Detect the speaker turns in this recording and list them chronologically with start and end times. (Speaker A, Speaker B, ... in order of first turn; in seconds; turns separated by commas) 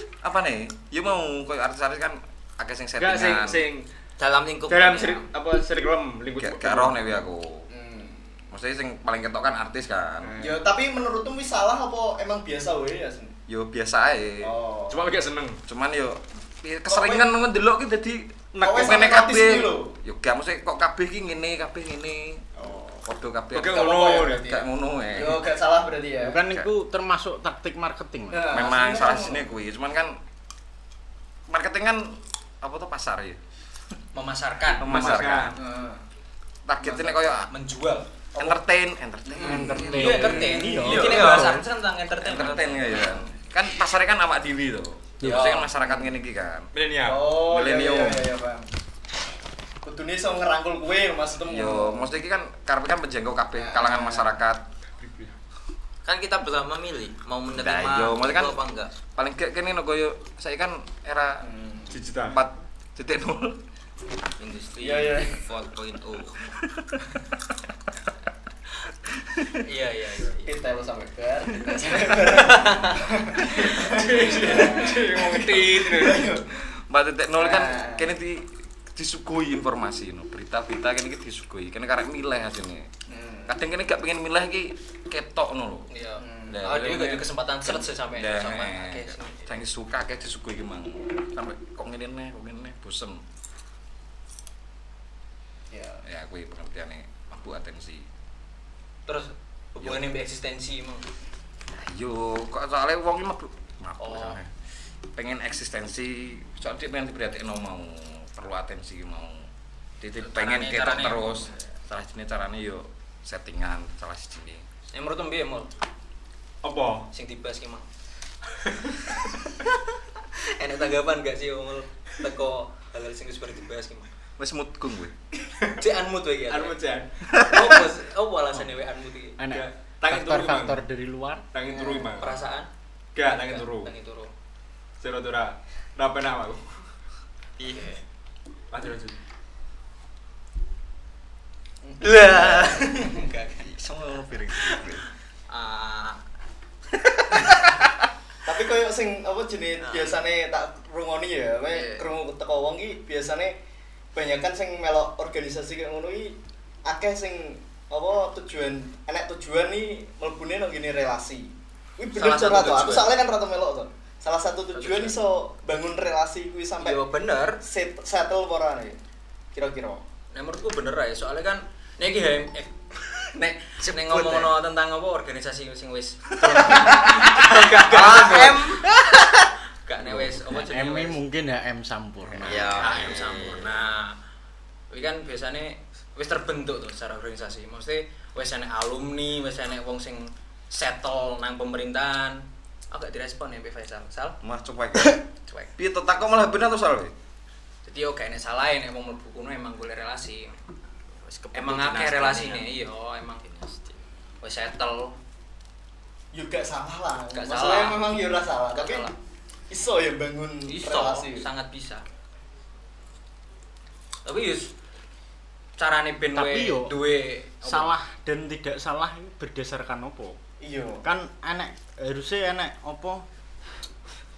Speaker A: 0.2-3.7, Speaker B: 3.0-3.9, Speaker C: 4.2-5.3, Speaker B: 4.7-7.0, Speaker A: 6.4-7.7, Speaker D: 7.7-8.3, Speaker A: 8.5-10.3, Speaker B: 10.2-10.6, Speaker D: 10.4-13.3, Speaker A: 13.5-14.5, Speaker D: 14.4-15.1, Speaker B: 14.9-15.6, Speaker A: 15.7-23.8, Speaker D: 16.9-17.3, Speaker B: 18.5-19.0, Speaker D: 18.6-20.0, Speaker B: 23.5-24.6, Speaker D: 23.6-26.4, Speaker A: 24.4-25.5, Speaker E: 26.2-28.6, Speaker D: 28.3-29.5, Speaker A: 28.5-30.2, Speaker A: 31.5-33.4, Speaker F: 34.1-34.9, Speaker E: 34.8-35.5, Speaker A: 34.8-35.6, Speaker B: 34.8-35.5, Speaker D: 35.5-36.0, Speaker A: 36.7-37.5, Speaker F: 36.8-38.1, Speaker D: 38.4-38.6, Speaker A: 38.4-40.4, Speaker D: 39.3-41.3, Speaker E: 39.4-41.6, Speaker F: 39.9-43.3, Speaker B: 41.1-41.4, Speaker A: 42.2-46.7, Speaker C: 42.5-42.8, Speaker E: 45.2-45.5, Speaker F: 45.2-45.7, Speaker D: 45.8-46.1, Speaker B: 46.7-47.3, Speaker D: 47.0-48.7, Speaker A: 47.4-48.3, Speaker D: 49.8-52.1, Speaker A: 51.5-54.6, Speaker D: 53.5-54.4, Speaker B: 55.0-55.3, Speaker C: 56.0-58.9, Speaker A: 57.5-58.6, Speaker A: 59.1-61.5, Speaker D: 61.4-62.0, Speaker B: 61.9-62.4, Speaker A: 62.3-63.6, Speaker C: 64.4-66.4, Speaker D: 64.8-65.4, Speaker F: 69.6-70.5, Speaker D: 70.5-76.6, Speaker F: 71.8-76.2, Speaker A: 76.9-82.9, Speaker D: 77.4-78.2, Speaker D: 83.1-83.5, Speaker A: 83.5-85.9, Speaker F: 85.9-89.5, Speaker D: 86.2-86.7, Speaker A: 86.5-93.2, Speaker D: 95.7-96.0, Speaker A: 96.0-98.1, Speaker F: 99.1-101.1, Speaker A: 99.8-100.1, Speaker A: 101.7-104.5, Speaker F: 104.0-104.4, Speaker A: 105.1-109.5, Speaker A: 110.0-114.6, Speaker F: 110.2-111.7, Speaker F: 114.9-115.7, Speaker B: 116.6-117.1, Speaker F: 117.1-117.9, Speaker F: 120.5-124.1, Speaker A: 124.4-125.1, Speaker F: 125.8-126.8, Speaker B: 126.5-127.1, Speaker A: 127.3-127.8, Speaker F: 127.4-129.4, Speaker E: 129.4-131.5, Speaker B: 129.5-130.8, Speaker B: 131.5-132.4, Speaker D: 131.7-132.1, Speaker F: 132.2-132.7, Speaker B: 133.2-133.9, Speaker F: 133.3-134.3, Speaker B: 135.0-136.7, Speaker C: 137.6-138.0, Speaker B: 138.7-139.2, Speaker D: 141.8-143.2, Speaker C: 142.0-142.9, Speaker F: 142.8-143.7, Speaker A: 143.6-145.0, Speaker F: 145.5-146.2, Speaker A: 147.0-147.9, Speaker D: 148.4-153.6, Speaker F: 149.8-150.2, Speaker F: 151.7-152.1, Speaker D: 154.2-167.0, Speaker F: 162.1-163.1, Speaker F: 164.7-165.2, Speaker F: 166.8-167.6, Speaker D: 167.6-169.0, Speaker D: 169.6-170.0, Speaker F: 170.3-178.8, Speaker C: 173.8-174.4, Speaker C: 177.9-179.0, Speaker F: 179.8-181.2, Speaker E: 180.1-183.1, Speaker C: 182.4-183.8, Speaker F: 182.8-184.2, Speaker A: 182.9-183.2, Speaker F: 184.9-194.4, Speaker A: 194.4-195.2, Speaker A: 195.8-197.1, Speaker F: 197.8-200.6, Speaker C: 201.2-202.7, Speaker F: 201.5-203.4, Speaker C: 203.4-204.0, Speaker F: 204.4-205.2, Speaker D: 206.3-209.1, Speaker F: 207.3-208.1, Speaker F: 208.7-209.2, Speaker D: 209.7-211.5, Speaker F: 210.7-212.1, Speaker F: 214.2-214.7, Speaker F: 215.8-217.9, Speaker E: 216.3-217.0, Speaker E: 217.6-220.4, Speaker D: 220.6-221.1, Speaker E: 221.0-223.3